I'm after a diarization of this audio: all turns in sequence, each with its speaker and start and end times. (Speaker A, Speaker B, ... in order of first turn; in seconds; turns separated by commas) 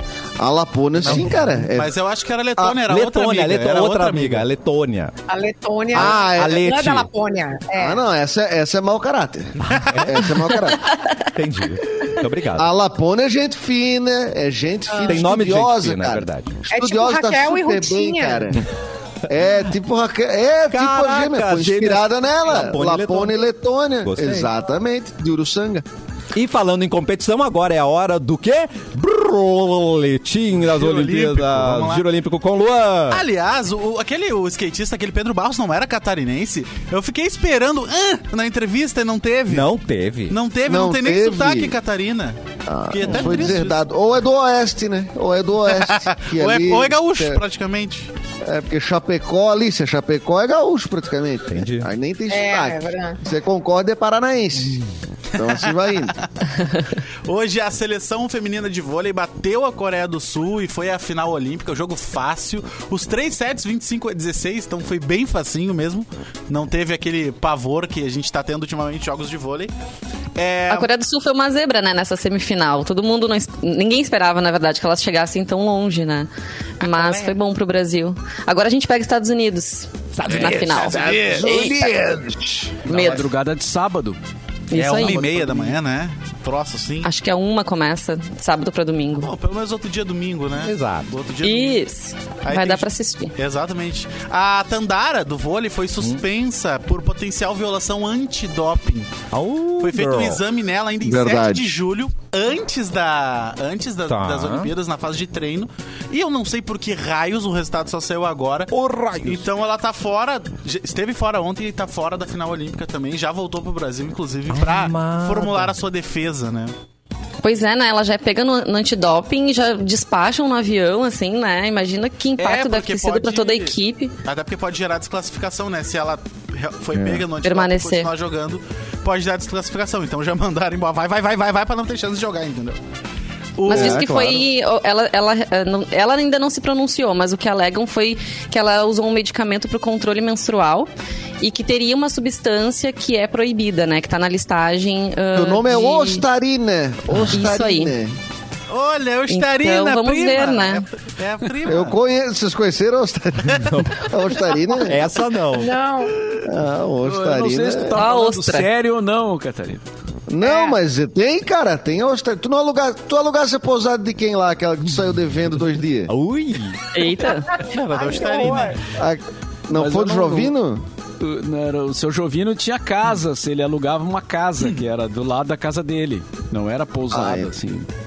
Speaker A: 0.4-1.9, Speaker B: 1.0-4.5, Speaker C: 2.8-5.1, Speaker D: 5.3-8.0, Speaker C: 5.9-7.1, Speaker A: 5.9-6.6, Speaker A: 7.8-10.8, Speaker C: 9.6-10.4, Speaker E: 10.8-11.2, Speaker C: 11.3-12.7, Speaker A: 12.6-18.6, Speaker D: 14.9-15.2, Speaker C: 15.0-16.6, Speaker D: 16.7-18.5, Speaker A: 19.3-25.9, Speaker C: 20.7-23.4, Speaker C: 24.0-24.5, Speaker C: 26.3-33.2, Speaker B: 30.6-32.0, Speaker B: 33.1-39.7, Speaker C: 39.5-40.4, Speaker B: 40.3-42.4, Speaker A: 40.6-41.8, Speaker A: 42.7-47.4, Speaker B: 42.9-43.9, Speaker C: 43.1-43.6, Speaker B: 45.6-48.1, Speaker A: 48.4-54.8, Speaker C: 51.5-51.9, Speaker D: 52.3-53.2, Speaker A: 55.4-56.1, Speaker B: 55.4-55.7, Speaker B: 57.2-69.7, Speaker B: 70.3-70.9, Speaker E: 70.7-81.7, Speaker D: 76.8-77.3, Speaker C: 80.1-80.9, Speaker F: 80.3-81.7, Speaker A: 80.8-82.8, Speaker F: 82.8-84.2, Speaker E: 82.9-83.3, Speaker E: 84.7-85.2, Speaker B: 84.7-87.1, Speaker F: 84.7-85.8, Speaker E: 87.0-89.3, Speaker B: 89.2-91.8, Speaker C: 90.6-91.1, Speaker E: 91.4-93.3, Speaker B: 92.4-99.2, Speaker C: 99.3-100.4, Speaker B: 99.8-108.7, Speaker A: 101.0-101.7, Speaker C: 104.1-104.7, Speaker C: 108.7-109.5, Speaker B: 109.2-116.7, Speaker C: 114.5-115.8, Speaker E: 117.4-124.1, Speaker B: 122.4-132.8, Speaker A: 126.9-127.2, Speaker E: 127.4-128.1, Speaker B: 133.6-134.1, Speaker E: 133.6-140.9, Speaker A: 133.7-134.4, Speaker E: 141.4-146.2, Speaker A: 145.3-148.2, Speaker E: 147.3-147.9, Speaker B: 148.7-152.0, Speaker E: 149.3-150.8, Speaker A: 151.6-155.0, Speaker C: 153.6-154.1, Speaker C: 154.8-155.8, Speaker D: 155.5-156.2, Speaker A: 156.4-158.0, Speaker F: 157.0-159.8, Speaker E: 157.9-158.7, Speaker A: 160.3-166.1, Speaker D: 160.4-160.8, Speaker C: 166.1-166.8, Speaker E: 166.9-167.5, Speaker D: 167.2-168.8, Speaker B: 167.5-168.8, Speaker A: 168.9-170.8, Speaker F: 169.7-170.5, Speaker F: 171.2-177.9, Speaker A: 177.1-177.5